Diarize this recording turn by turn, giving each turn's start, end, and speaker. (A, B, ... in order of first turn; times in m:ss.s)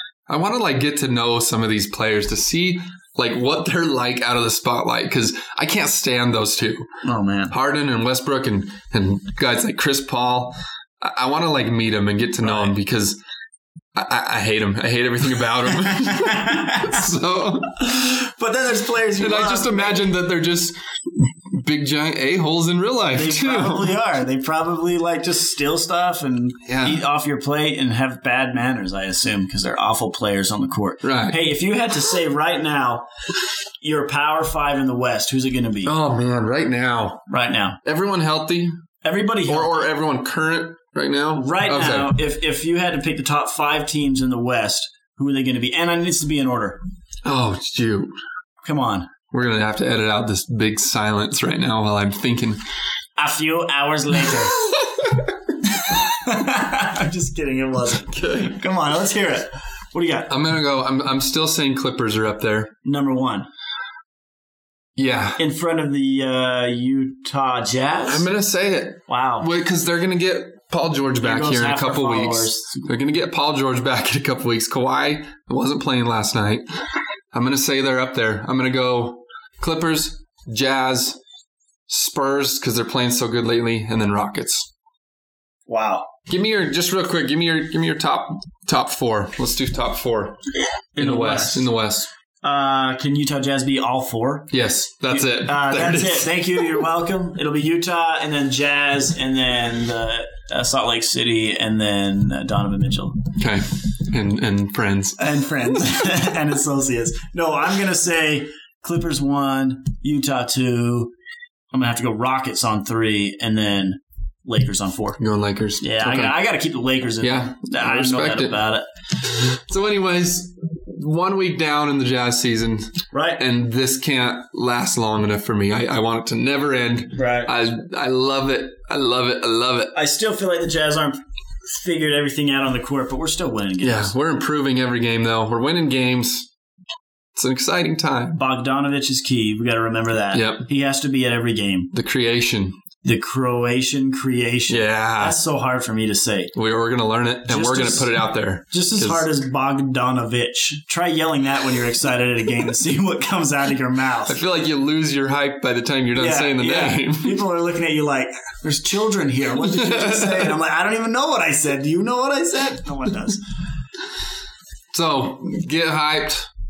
0:00.3-0:06.9 A
0:07.0-0:07.5 B
0:07.5-0:13.2 A
0:12.4-0:12.7 B
0:13.9-0:17.9 A
0:15.8-0:17.1 B
0:17.8-0:20.1 B
0:19.2-0:24.0 A
0:23.1-0:33.0 B
0:26.6-0:27.0 A
0:31.0-0:31.4 A
0:33.8-0:35.9 B
0:35.8-0:37.2 A
0:37.3-0:37.8 B
0:37.8-0:38.7 A
0:39.0-0:39.9 B
0:39.5-0:42.2 A
0:41.3-0:46.8 B
0:47.2-0:48.1 A
0:48.6-0:49.1 B
0:49.3-0:52.6 A
0:53.2-0:54.6 B
0:54.3-0:55.3 A
0:55.6-1:00.3 B
0:58.1-0:58.6 A
1:00.3-1:02.7 A
1:02.8-1:03.5 B
1:05.0-1:05.4 A
1:05.4-1:08.2 B
1:08.1-1:16.6 A
1:09.1-1:09.5 B
1:11.2-1:12.9 B
1:17.3-1:21.2 A
1:21.9-1:24.7 A
1:25.7-1:26.1 B
1:26.3-1:30.4 A
1:30.9-1:31.7 B
1:31.0-1:32.1 A
1:32.4-1:34.5 B
1:34.5-1:36.8 A
1:35.1-1:43.3 B
1:43.4-1:45.2 A
1:45.2-1:51.1 B
1:51.7-1:55.2 B
1:55.2-1:56.4 A
1:55.8-1:58.8 B
1:57.2-1:58.6 A
1:59.2-2:09.9 A
2:03.1-2:03.4 B
2:07.1-2:07.5 B
2:09.9-2:14.1 B
2:13.8-2:16.5 A
2:17.3-2:18.4 A
2:18.4-2:21.9 B
2:20.3-2:20.7 A
2:21.9-2:22.8 A
2:23.0-2:26.5 B
2:24.7-2:25.4 A
2:26.5-2:29.3 A
2:27.5-2:28.2 B
2:28.7-2:34.4 B
2:34.2-2:37.4 A
2:36.1-2:43.4 B
2:39.6-2:40.5 A
2:44.9-2:46.5 A